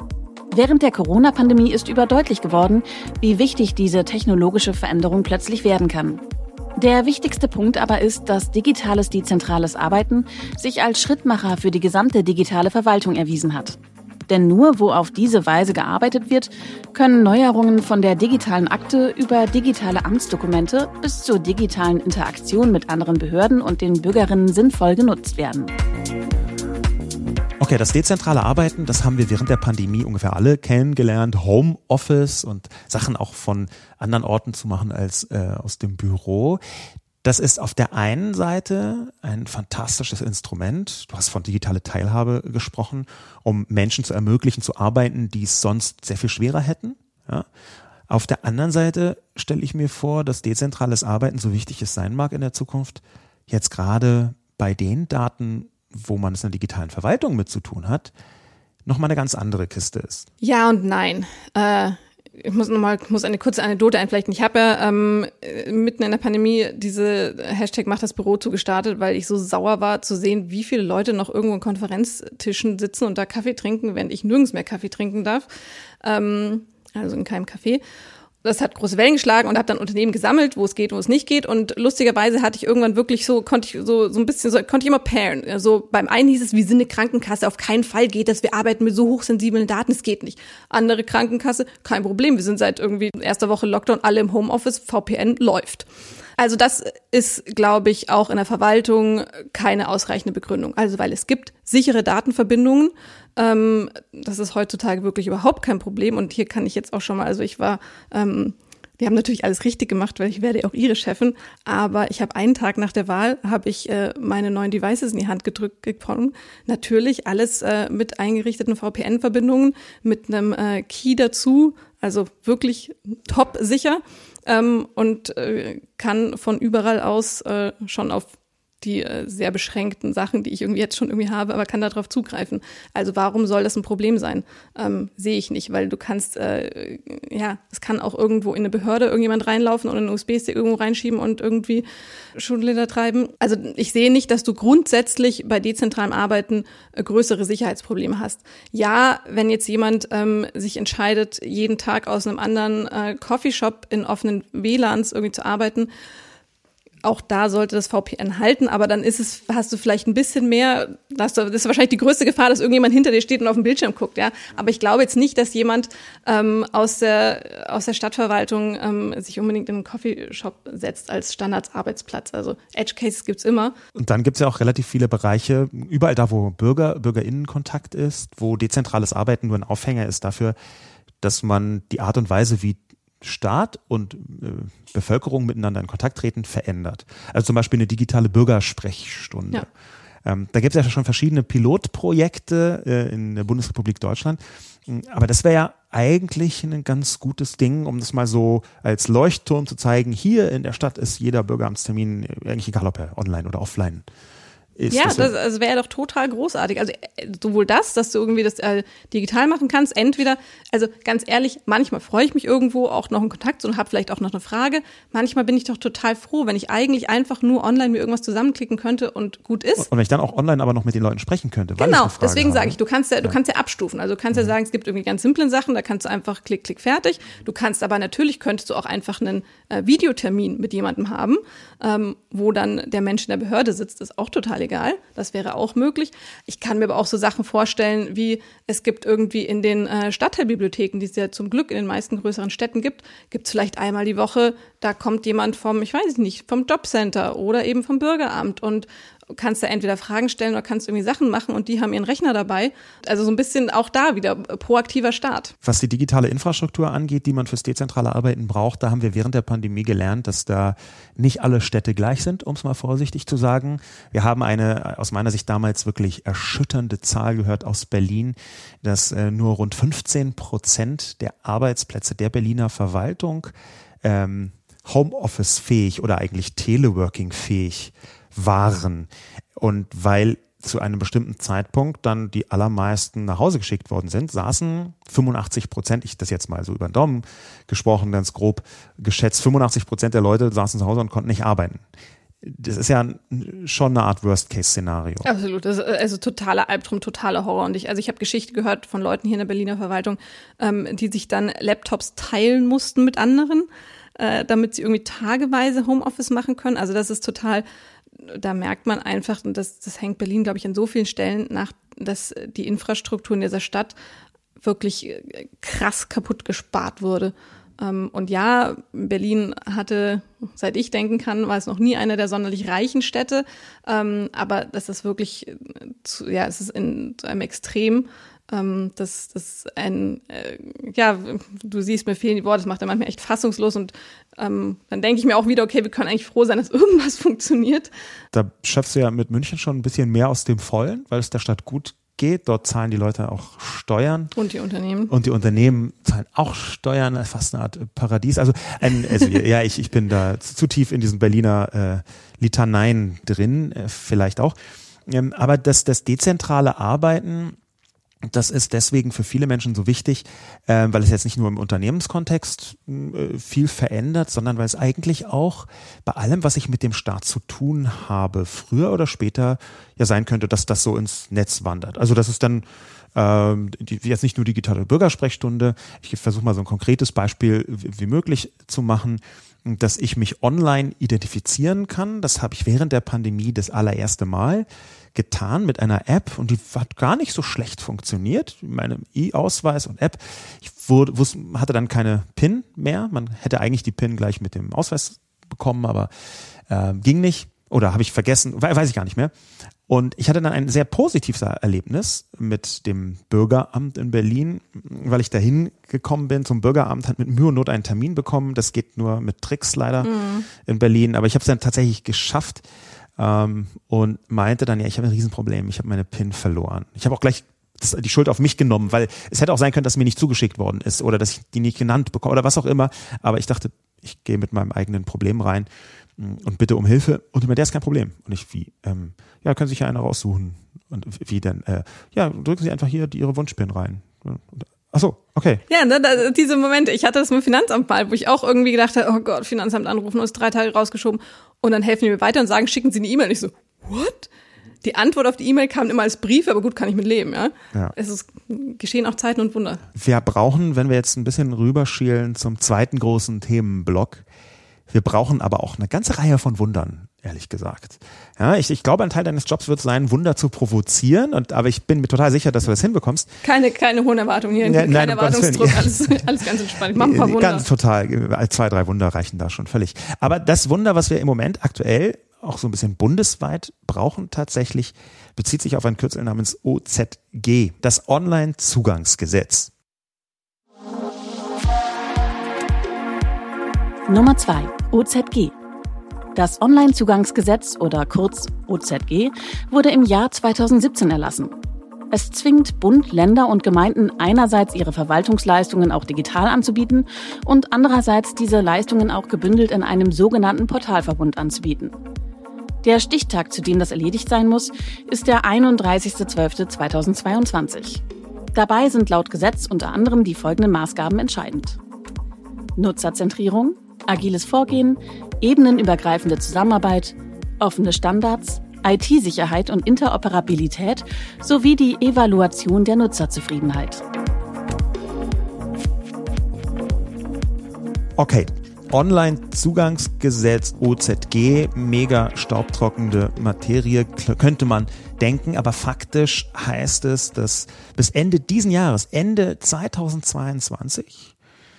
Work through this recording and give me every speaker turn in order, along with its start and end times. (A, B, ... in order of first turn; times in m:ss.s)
0:00.5-0:06.2 A
0:06.8-0:13.8 A
0:14.3-0:25.7 A
0:27.6-0:36.6 B
0:37.2-0:47.5 B
0:48.1-0:58.1 B
0:58.8-1:00.3 B
1:00.4-1:15.4 C
1:16.0-1:17.8 C
1:18.4-1:35.8 C
1:36.4-2:08.3 C
2:08.8-2:35.9 C
2:37.0-2:53.8 C
2:53.9-3:00.5 B
3:01.2-3:09.7 B
3:10.2-3:24.0 B
3:24.8-3:25.3 B
3:24.9-3:39.9 C
3:39.8-3:43.3 B
3:41.8-4:15.5 C
4:15.6-4:33.5 B
4:34.0-4:51.8 B
4:52.4-4:55.3 B
4:55.2-5:07.6 C
5:08.2-5:13.9 C
5:14.6-5:37.9 C
5:38.3-5:44.3 B
5:44.3-5:45.1 C
5:45.1-5:57.6 B
5:58.2-6:36.1 B
6:36.7-6:39.3 B
6:39.9-6:52.6 B
6:50.0-6:50.5 C
6:53.2-7:15.6 B
7:15.7-7:24.3 C
7:24.8-7:29.8 C
7:29.9-7:34.2 B
7:34.9-7:43.3 B
7:43.4-7:47.6 C
7:44.6-7:46.3 B
7:46.9-7:59.7 B
8:04.1-8:05.5 A
8:06.3-8:11.5 A
8:12.1-8:21.9 A
8:22.8-8:28.0 A
8:28.5-8:31.8 A
8:32.8-8:44.0 A
8:48.2-9:01.3 B